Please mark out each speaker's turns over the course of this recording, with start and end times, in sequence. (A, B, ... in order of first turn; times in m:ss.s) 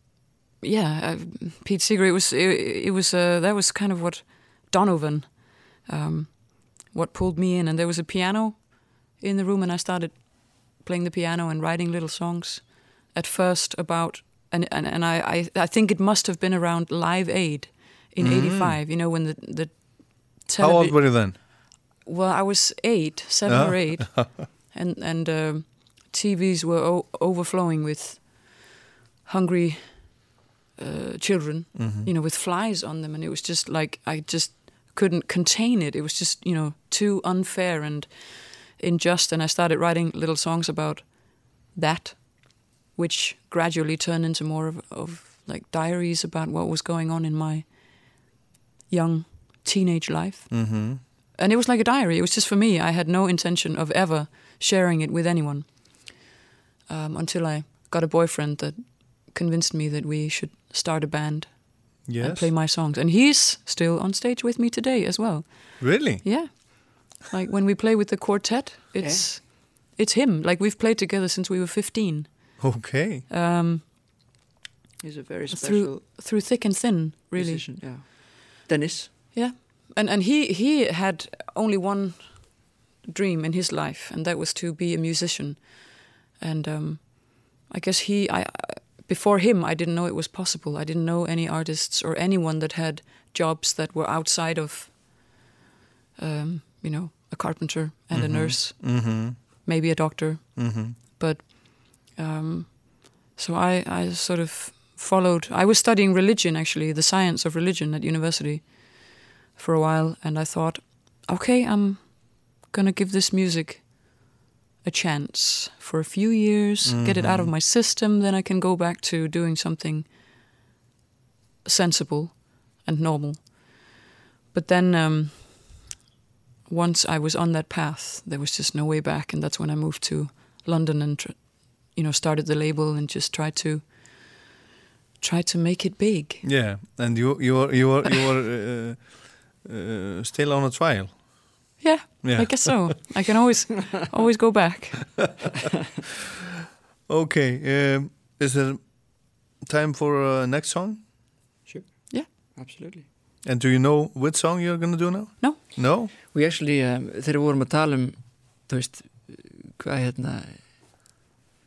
0:00.6-0:48.2 A
0:18.2-0:18.8 B
0:20.6-0:21.3 B
0:23.4-0:24.4 B
0:31.7-0:32.1 B
0:48.9-0:56.2 A
0:50.5-0:51.0 B
0:56.9-1:13.8 A
1:02.0-1:02.5 B
1:05.8-1:06.6 B
1:09.0-1:09.3 C
1:12.6-1:13.2 B
1:15.0-1:16.0 C
1:15.5-1:17.7 A
1:17.3-1:19.1 C
1:19.3-1:35.3 A
1:36.2-1:54.3 A
1:38.1-1:39.4 B
1:40.6-1:41.0 B
1:54.8-2:00.1 A
1:56.8-1:57.5 B
2:01.6-2:03.9 A
2:04.5-2:05.9 A
2:06.6-2:14.4 A
2:15.2-2:16.4 A
2:16.4-2:23.0 B
2:21.8-2:25.3 A
2:27.1-2:31.0 B
2:31.6-2:33.0 C
2:33.4-2:36.1 B
2:36.3-2:40.7 C